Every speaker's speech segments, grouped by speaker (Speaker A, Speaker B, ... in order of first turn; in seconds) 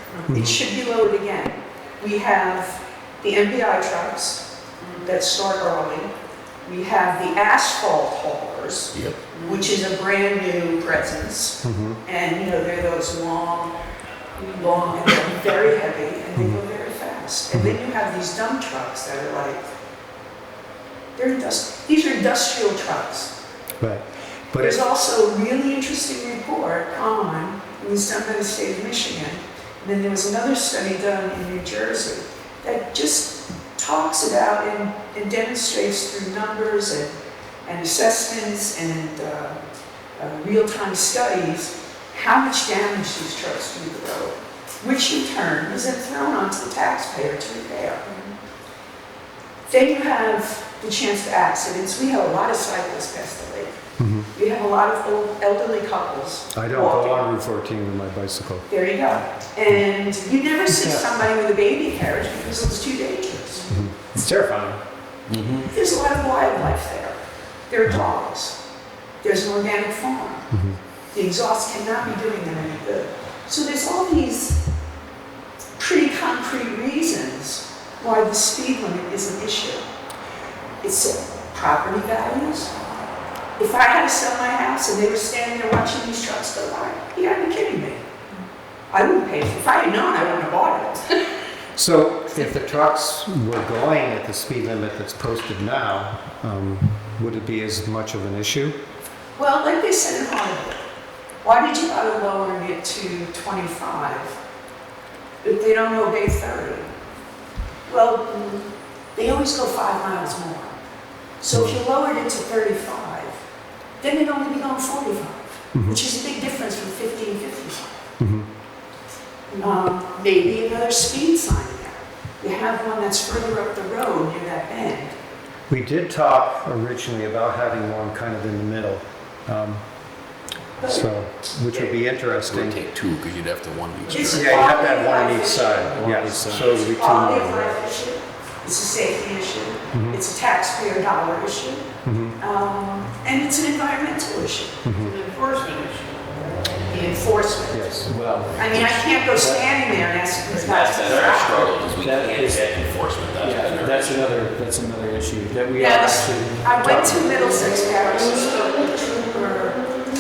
Speaker A: 0.3-0.6, 11.6-12.0, 16.4-16.6, 23.8-24.8, 54.0-54.3, 56.5-58.7, 60.7-61.1, 63.7-64.7, 70.5-70.8, 91.8-98.8, 115.7-116.0, 118.2-118.5, 125.7-129.8, 130.8-132.8, 134.3-137.8, 139.9-140.2, 142.1-142.4, 144.8-145.2, 147.7-148.1
Speaker B: 0.3-4.4, 5.0-6.1, 6.7-13.8, 14.6-19.7, 21.2-23.3, 24.6-37.1, 37.6-39.6, 40.2-48.1, 49.7-53.8, 54.3-57.3, 58.7-63.7, 65.7-67.2, 67.7-68.6, 69.2-70.5, 71.1-74.6, 75.8-79.8, 80.8-82.7, 83.6-88.1, 88.9-91.0, 99.4-100.8, 101.4-104.4, 105.4-106.9, 107.9-110.8, 111.4-113.4, 114.0-117.9, 119.6-125.1, 130.8-131.1, 134.1-141.9, 142.4-144.9, 146.9-147.9, 148.6-151.8, 155.8-159.8
Speaker C: 4.8-5.1, 9.3-9.8, 14.4-15.2, 145.0-146.5
Speaker D: 8.9-9.2, 65.3-65.7, 132.5-134.7, 150.5-154.2
Speaker E: 64.3-64.8, 135.9-136.8, 148.1-149.7, 151.0-152.8, 153.3-157.4